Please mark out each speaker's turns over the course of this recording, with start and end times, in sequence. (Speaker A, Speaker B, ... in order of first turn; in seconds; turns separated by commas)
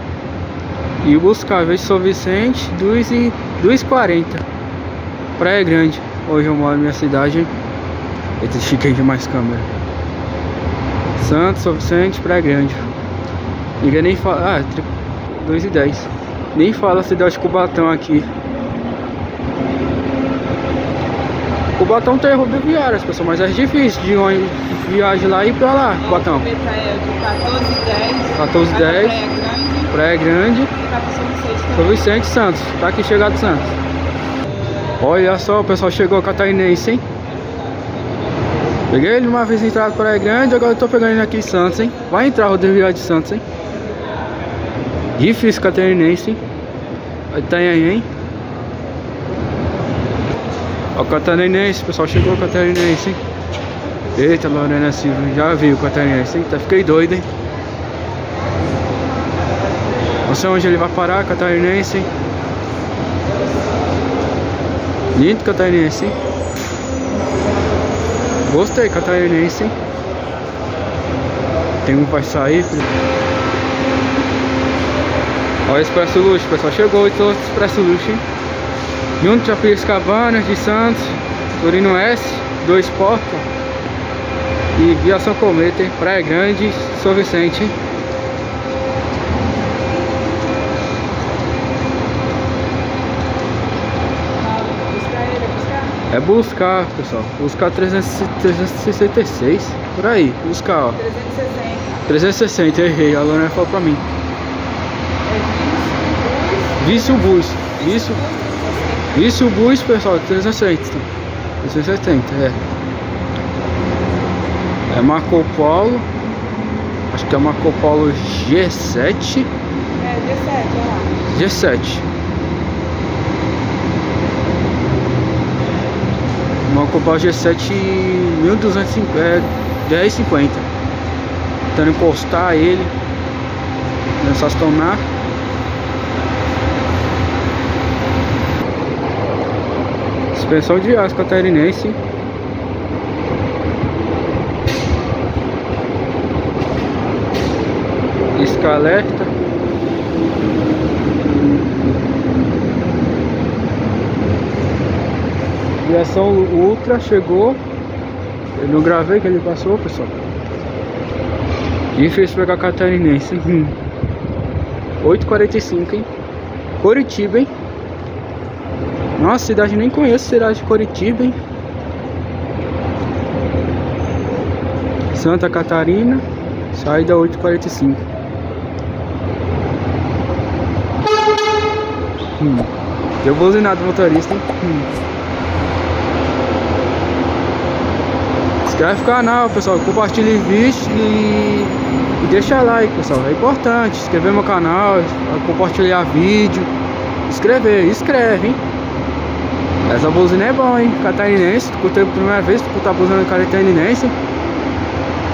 Speaker A: 1.0-4.4, Speaker A: 5.4-7.5, Speaker A: 8.4-9.7, Speaker A: 11.2-12.9, Speaker A: 13.8-18.3, Speaker A: 21.8-26.5, Speaker B: 26.1-29.9, Speaker A: 28.4-29.2, Speaker A: 29.9-30.7, Speaker B: 30.8-32.0, Speaker A: 31.7-33.8, Speaker A: 35.0-37.0, Speaker A: 38.9-43.4, Speaker A: 45.2-46.4, Speaker A: 47.3-48.1, Speaker A: 51.0-53.2, Speaker A: 54.2-57.3, Speaker A: 60.3-62.1, Speaker A: 65.2-66.2, Speaker A: 68.5-69.7, Speaker A: 71.8-72.9, Speaker A: 75.7-78.2, Speaker A: 79.2-83.5, Speaker A: 84.8-87.8, Speaker B: 94.4-95.9, Speaker A: 96.1-101.1, Speaker B: 101.1-101.9, Speaker A: 102.1-104.0, Speaker B: 105.3-107.3, Speaker A: 106.8-108.2, Speaker B: 107.8-109.2, Speaker A: 109.1-111.1, Speaker A: 111.6-112.6, Speaker A: 114.9-116.1, Speaker A: 117.1-119.5, Speaker B: 120.0-121.2, Speaker A: 121.2-122.0, Speaker A: 126.7-130.7, Speaker A: 131.7-132.9, Speaker A: 134.2-135.0, Speaker A: 140.3-142.0, Speaker A: 148.3-149.3, Speaker A: 155.8-157.6, Speaker A: 158.6-160.2, Speaker A: 161.9-163.8, Speaker A: 165.0-166.1, Speaker A: 166.8-167.5, Speaker A: 169.2-171.4, Speaker A: 175.1-178.0, Speaker A: 182.4-182.7, Speaker A: 183.2-184.9, Speaker A: 188.6-196.7, Speaker A: 197.3-198.6, Speaker A: 199.9-204.1